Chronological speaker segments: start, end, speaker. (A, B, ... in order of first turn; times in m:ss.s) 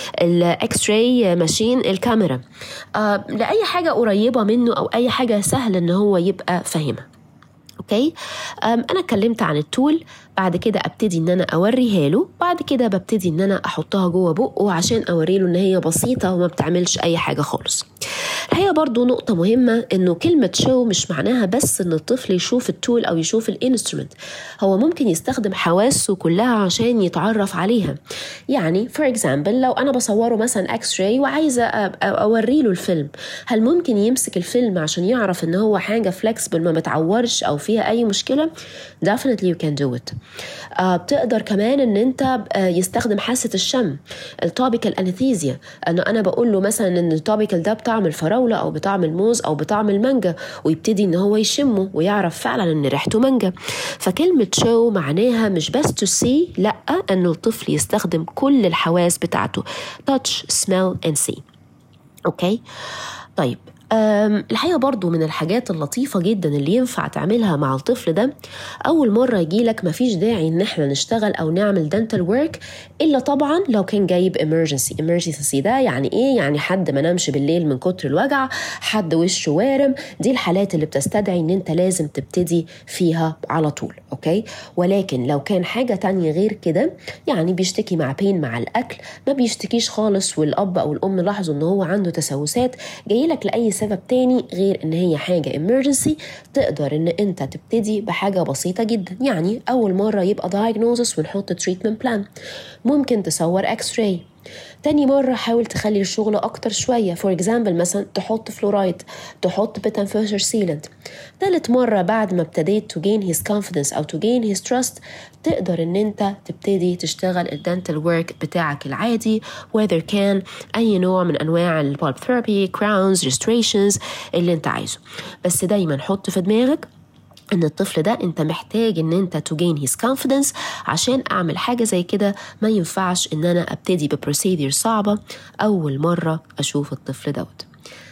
0:00.2-0:02.4 A
0:03.0-0:07.0 A
0:07.8-0:08.1 A
0:08.6-0:17.8 A
0:18.5-0:28.0 A
0:28.5-0:38.5 A
0:39.0-0:40.1 A
0:40.8-1:01.4 A
1:02.3-1:02.6 A
1:03.4-1:08.3 A
1:08.8-1:42.2 A
1:42.8-1:44.2 A
1:44.8-1:50.9 A
1:51.4-2:06.8 A
2:07.5-2:17.7 A